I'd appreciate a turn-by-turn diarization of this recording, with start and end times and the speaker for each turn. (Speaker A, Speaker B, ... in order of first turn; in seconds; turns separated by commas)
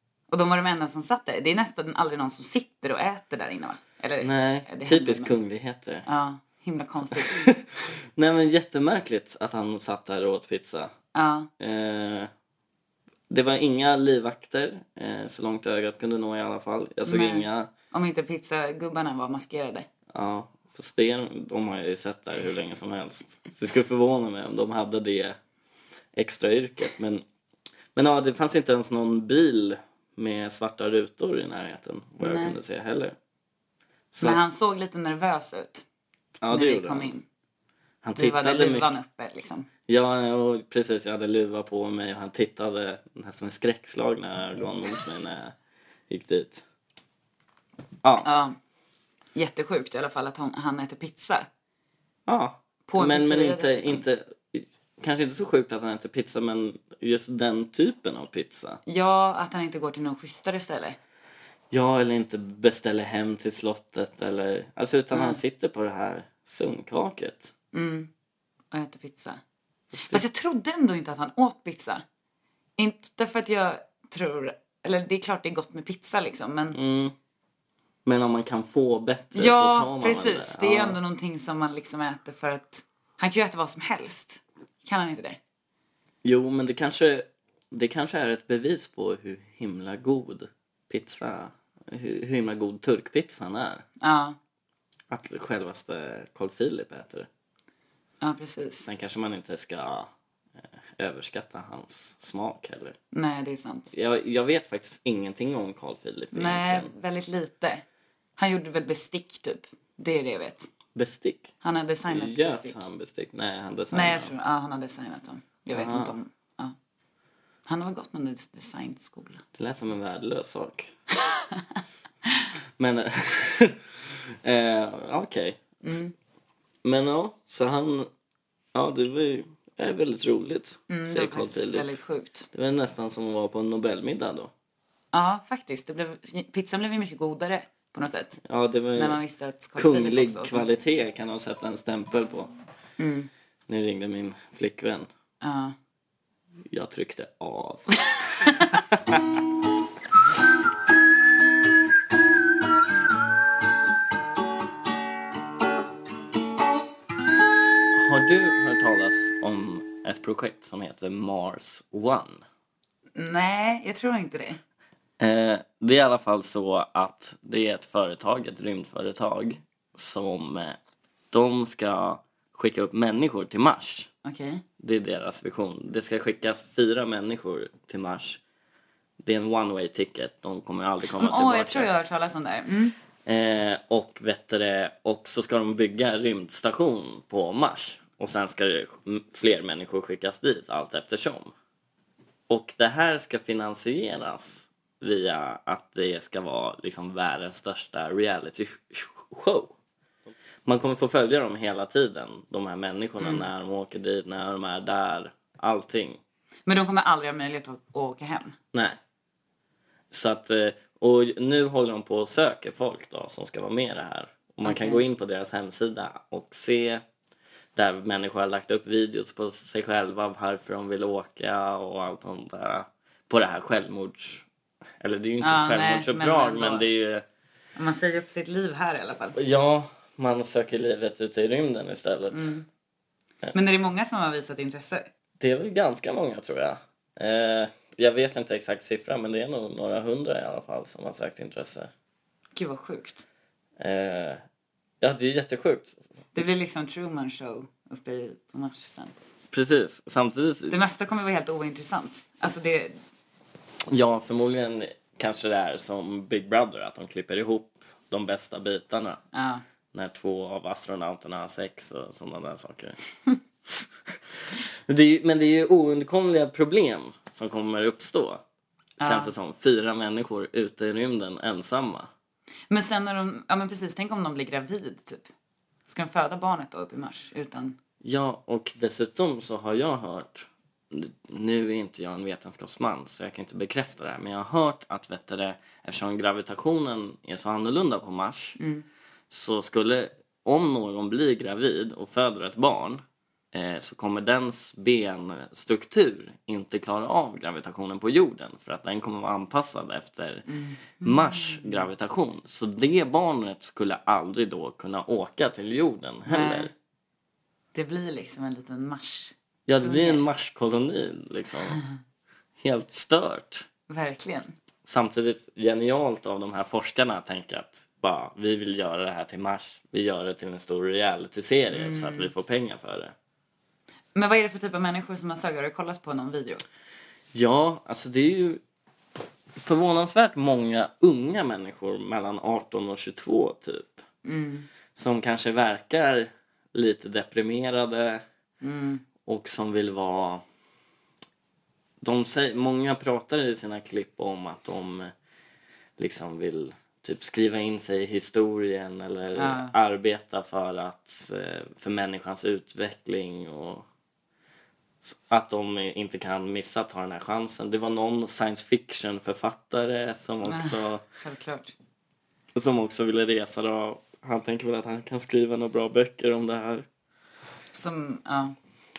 Speaker A: 0.3-5.4, Speaker B: 4.2-6.0, Speaker A: 6.0-7.5, Speaker B: 7.1-10.9, Speaker A: 11.1-11.5, Speaker B: 11.6-12.3, Speaker B: 13.3-17.7, Speaker A: 17.0-19.9, Speaker B: 20.1-25.4, Speaker B: 26.1-27.2, Speaker B: 27.9-33.1, Speaker A: 32.2-32.6, Speaker B: 34.1-34.5, Speaker A: 34.2-35.9, Speaker B: 36.4-37.1, Speaker A: 36.5-37.2, Speaker B: 38.0-38.9, Speaker A: 38.1-39.7, Speaker B: 39.9-45.5, Speaker B: 46.1-46.6, Speaker B: 48.0-48.3, Speaker A: 48.2-48.5, Speaker A: 49.3-51.5, Speaker B: 52.3-58.8, Speaker A: 52.9-54.0, Speaker A: 58.8-61.0, Speaker B: 61.7-67.5, Speaker A: 65.1-65.4, Speaker A: 67.7-68.1, Speaker A: 68.7-69.4, Speaker B: 69.9-70.2, Speaker A: 70.1-72.0, Speaker A: 72.8-76.8, Speaker B: 76.7-77.1, Speaker B: 78.0-81.0, Speaker A: 79.3-85.4, Speaker B: 86.2-93.8, Speaker A: 94.0-94.4, Speaker B: 95.1-97.3, Speaker A: 98.2-98.9, Speaker B: 98.8-100.1, Speaker B: 101.0-103.0, Speaker A: 103.1-103.9, Speaker B: 103.9-106.9, Speaker A: 106.3-107.8, Speaker A: 108.4-110.7, Speaker B: 110.9-111.5, Speaker A: 111.6-112.8, Speaker B: 112.1-114.3, Speaker A: 113.9-116.7, Speaker B: 115.7-116.2, Speaker A: 117.7-119.4, Speaker B: 119.5-120.9, Speaker A: 121.2-122.5, Speaker B: 122.8-126.0, Speaker A: 125.8-126.1, Speaker B: 126.8-128.1, Speaker B: 128.7-132.0, Speaker A: 130.9-132.5, Speaker B: 132.5-134.5, Speaker A: 135.1-138.4, Speaker B: 138.4-139.2, Speaker A: 138.9-140.7, Speaker B: 139.8-142.5, Speaker A: 143.0-143.3, Speaker B: 143.7-145.1, Speaker A: 145.4-145.7, Speaker B: 146.7-149.4, Speaker A: 148.1-148.5, Speaker B: 157.9-162.4, Speaker A: 163.1-164.6, Speaker B: 165.2-170.8, Speaker B: 171.3-174.1, Speaker A: 174.2-174.6, Speaker B: 174.8-178.4, Speaker B: 179.2-181.9, Speaker A: 181.1-182.9, Speaker B: 183.2-191.5, Speaker B: 192.5-199.7, Speaker B: 200.6-206.2, Speaker A: 203.2-203.5, Speaker A: 206.7-208.5, Speaker B: 208.7-209.0, Speaker B: 210.1-217.0, Speaker A: 214.6-215.0, Speaker B: 217.7-224.4, Speaker B: 225.0-227.2, Speaker A: 225.4-226.8, Speaker A: 227.8-229.4, Speaker B: 229.3-232.5, Speaker A: 232.3-232.7, Speaker A: 233.5-235.1, Speaker B: 235.4-241.9, Speaker A: 242.5-243.2, Speaker B: 243.8-244.4, Speaker B: 245.0-246.0, Speaker A: 246.3-249.1, Speaker B: 249.5-250.8, Speaker A: 250.7-253.0, Speaker B: 253.9-259.2, Speaker A: 259.3-259.6, Speaker B: 259.9-263.0, Speaker B: 263.6-264.1, Speaker B: 264.9-268.4, Speaker A: 269.0-269.3, Speaker B: 269.0-272.1, Speaker A: 272.7-275.3, Speaker A: 275.9-277.8, Speaker B: 278.0-288.6, Speaker A: 288.6-288.8, Speaker B: 289.3-293.0, Speaker B: 293.5-300.4, Speaker A: 300.5-301.9, Speaker B: 301.0-306.7, Speaker A: 306.3-306.7, Speaker A: 307.7-310.2, Speaker B: 309.7-311.8, Speaker B: 312.6-313.7, Speaker A: 313.9-314.5, Speaker B: 314.8-323.1, Speaker A: 321.7-322.3, Speaker A: 324.1-326.6, Speaker B: 327.3-328.6, Speaker B: 329.5-334.0, Speaker A: 334.2-334.7, Speaker B: 334.9-338.2, Speaker A: 338.6-339.0, Speaker B: 339.2-340.4, Speaker B: 342.0-345.1, Speaker B: 346.0-353.9, Speaker A: 349.4-349.7, Speaker B: 355.0-361.0, Speaker A: 360.4-361.7, Speaker B: 362.5-366.9, Speaker A: 367.7-368.6